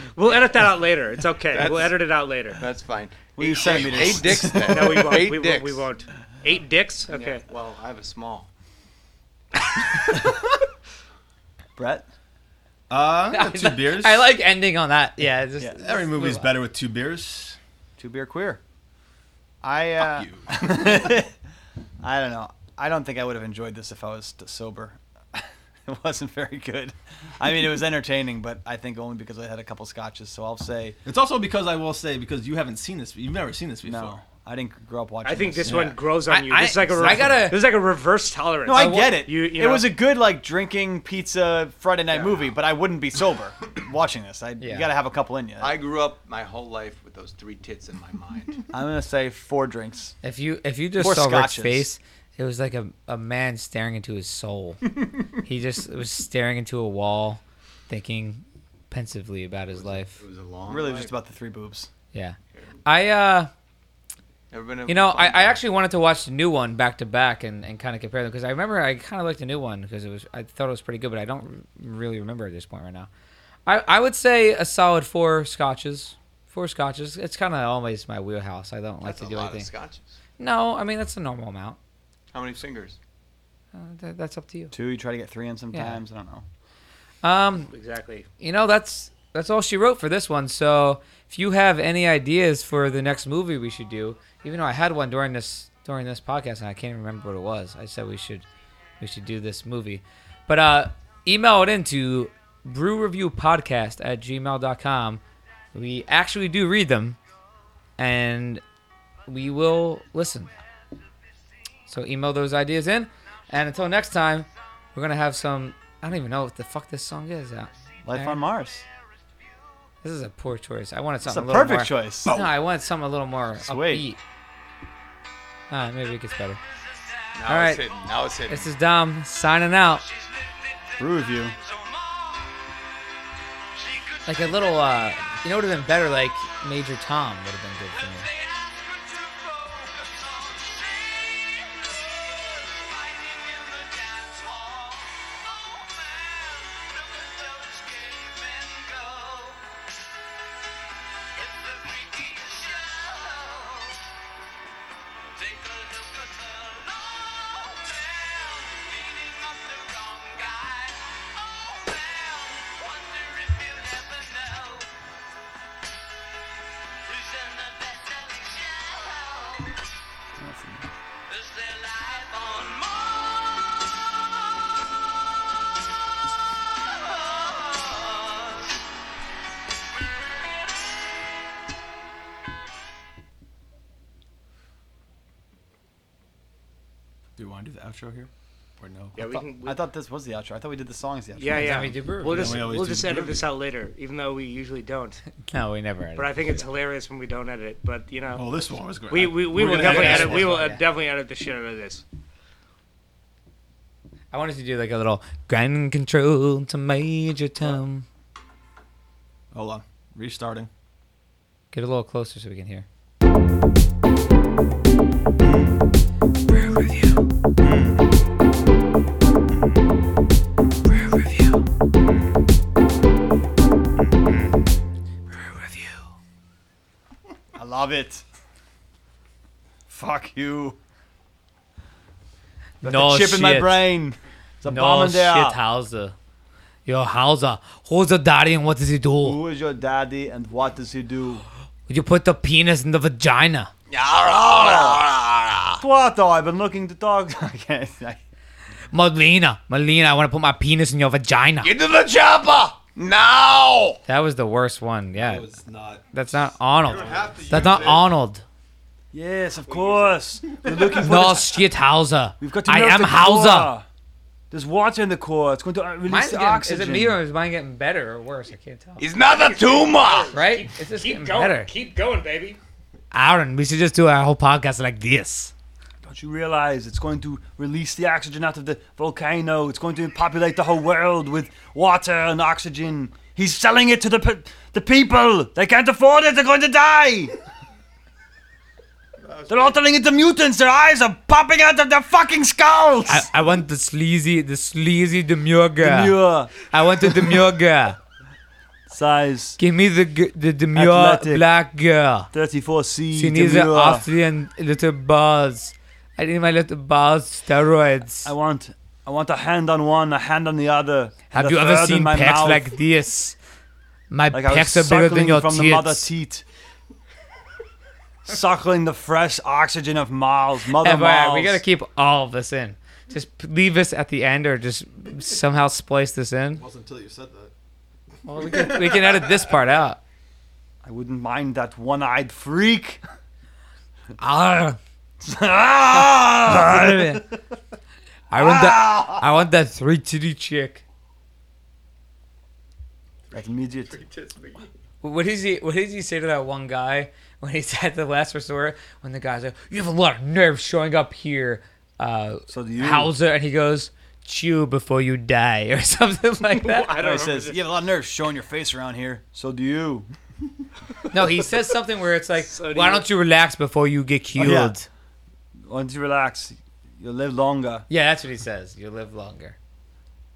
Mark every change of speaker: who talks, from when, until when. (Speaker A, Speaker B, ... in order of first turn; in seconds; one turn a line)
Speaker A: 0.1-2.6
Speaker B: 1.5-2.0
Speaker B: 2.5-5.9
Speaker C: 3.4-5.1
Speaker A: 4.7-7.4
Speaker B: 7.1-8.5
Speaker C: 11.8-12.1
Speaker D: 12.9-14.3
Speaker E: 13.3-16.5
Speaker D: 15.8-17.6
Speaker C: 18.0-18.6
Speaker C: 19.6-21.3
Speaker D: 20.0-21.2
Speaker C: 22.0-31.0
Speaker D: 31.0-34.2
Speaker C: 33.8-35.8
Speaker A: 35.2-40.0
Speaker D: 35.6-36.0
Speaker E: 36.3-37.6
Speaker D: 37.0-37.3
Speaker C: 38.7-45.8
Speaker E: 38.7-39.2
Speaker B: 42.1-42.5
Speaker E: 44.6-44.9
Speaker B: 45.6-48.6
Speaker C: 48.7-50.1
Speaker E: 50.2-54.9
Speaker C: 51.0-51.9
Speaker E: 55.4-60.2
Speaker B: 59.7-61.1
Speaker C: 60.7-61.9
Speaker E: 62.1-63.5
Speaker B: 64.5-65.6
Speaker E: 64.9-73.1
Speaker E: 73.7-79.7
Speaker B: 79.0-80.2
Speaker E: 80.4-81.8
Speaker B: 82.3-83.0
Speaker E: 83.7-84.7
Speaker C: 84.7-86.4
Speaker E: 85.7-86.0
Speaker E: 87.2-87.7
Speaker A: 87.7-88.3
Speaker E: 88.4-98.4
Speaker E: 99.0-105.2
Speaker E: 105.7-107.2
Speaker E: 108.0-108.6
Speaker E: 109.3-110.6
Speaker E: 111.9-118.4
Speaker C: 118.0-118.8
Speaker E: 120.0-124.2
Speaker C: 121.2-122.4
Speaker C: 123.6-124.0
Speaker E: 125.7-126.6
Speaker F: 126.7-128.1
Speaker B: 127.3-128.7
Speaker E: 127.5-127.8
Speaker E: 128.5-130.0
Speaker F: 129.9-132.7
Speaker C: 131.0-131.6
Speaker F: 133.7-134.9
Speaker E: 134.3-138.2
Speaker F: 137.9-149.8
Speaker F: 151.3-154.1
Speaker F: 155.3-164.9
Speaker F: 167.1-169.8
Speaker C: 170.4-170.9
Speaker F: 171.3-173.9
Speaker F: 176.9-178.8
Speaker D: 187.4-189.2
Speaker A: 189.2-189.8
Speaker C: 189.2-192.0
Speaker A: 191.3-195.2
Speaker E: 191.5-192.6
Speaker D: 192.2-193.5
Speaker E: 195.4-196.6
Speaker A: 196.2-198.4
Speaker D: 198.3-200.6
Speaker A: 199.1-202.0
Speaker E: 199.6-200.8
Speaker E: 204.3-208.0
Speaker D: 209.5-210.7
Speaker E: 211.7-212.8
Speaker D: 215.4-215.9
Speaker E: 216.5-217.2
Speaker D: 217.6-218.1
Speaker E: 221.3-221.5
Speaker E: 224.2-224.6
Speaker E: 225.3-226.0
Speaker C: 227.5-228.2
Speaker C: 229.9-230.8
Speaker E: 232.8-233.9
Speaker C: 232.8-235.6
Speaker E: 234.7-236.1
Speaker E: 236.8-239.4
Speaker C: 239.2-241.4
Speaker E: 241.9-243.7
Speaker B: 243.9-245.2
Speaker F: 244.3-245.7
Speaker C: 244.5-245.0
Speaker C: 245.8-248.2
Speaker E: 248.9-251.7
Speaker B: 251.6-254.0
Speaker F: 252.2-252.8
Speaker E: 254.1-255.5
Speaker D: 255.1-258.0
Speaker E: 256.1-258.4
Speaker B: 256.9-258.1
Speaker C: 259.1-261.5
Speaker B: 259.7-260.1
Speaker E: 260.9-263.7
Speaker C: 262.4-263.9
Speaker C: 264.5-267.2
Speaker E: 266.1-269.0
Speaker B: 269.0-270.3
Speaker A: 269.3-272.6
Speaker E: 270.3-271.7
Speaker E: 273.1-275.5
Speaker C: 276.0-287.3
Speaker B: 289.2-289.8
Speaker C: 289.5-293.3
Speaker E: 293.1-298.0
Speaker C: 295.8-297.4
Speaker C: 298.9-299.6
Speaker E: 299.6-302.3
Speaker C: 300.7-301.4
Speaker C: 302.3-304.1
Speaker E: 303.1-308.3
Speaker C: 308.2-312.7
Speaker E: 311.3-313.4
Speaker E: 314.1-316.1
Speaker C: 314.3-316.4
Speaker C: 318.3-321.6
Speaker E: 320.7-326.6
Speaker D: 326.6-327.5
Speaker E: 328.2-330.0
Speaker C: 330.8-333.0
Speaker E: 334.2-334.8
Speaker C: 335.2-337.2
Speaker E: 335.9-337.3
Speaker E: 338.3-340.8
Speaker C: 338.3-339.2
Speaker B: 343.3-344.7
Speaker C: 343.3-343.9
Speaker E: 345.0-356.9
Speaker C: 352.5-353.1
Speaker A: 356.5-357.7
Speaker C: 357.0-360.1
Speaker E: 361.1-364.9
Speaker A: 362.5-363.1
Speaker C: 364.4-364.7
Speaker C: 365.7-367.9
Speaker E: 367.9-369.6